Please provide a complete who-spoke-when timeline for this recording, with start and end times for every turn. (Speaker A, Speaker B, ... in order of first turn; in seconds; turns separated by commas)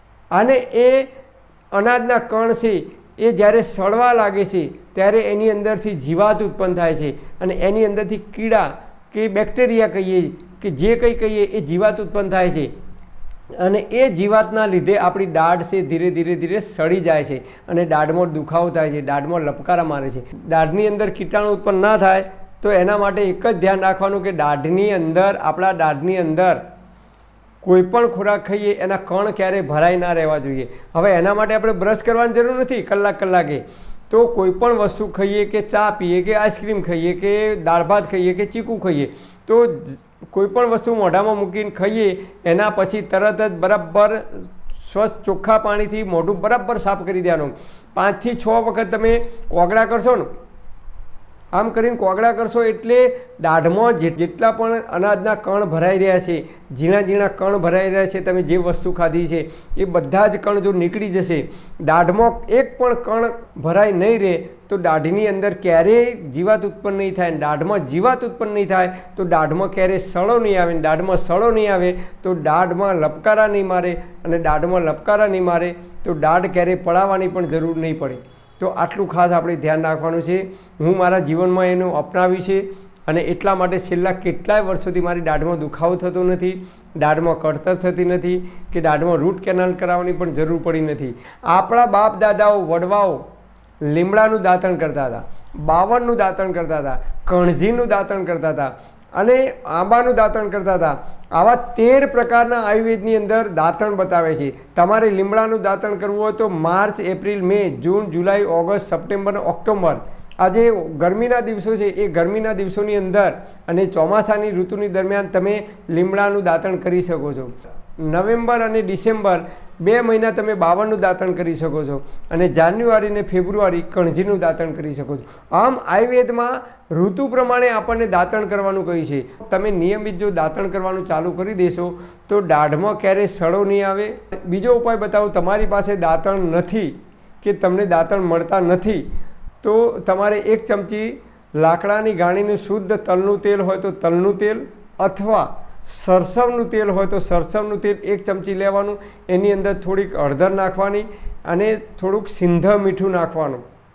Speaker A: 0.3-1.1, Speaker A: 1.7-12.7, Speaker A: 13.6-26.6, Speaker A: 27.6-50.3, Speaker A: 51.5-93.2, Speaker A: 93.8-117.5, Speaker A: 118.0-139.0, Speaker A: 139.6-153.6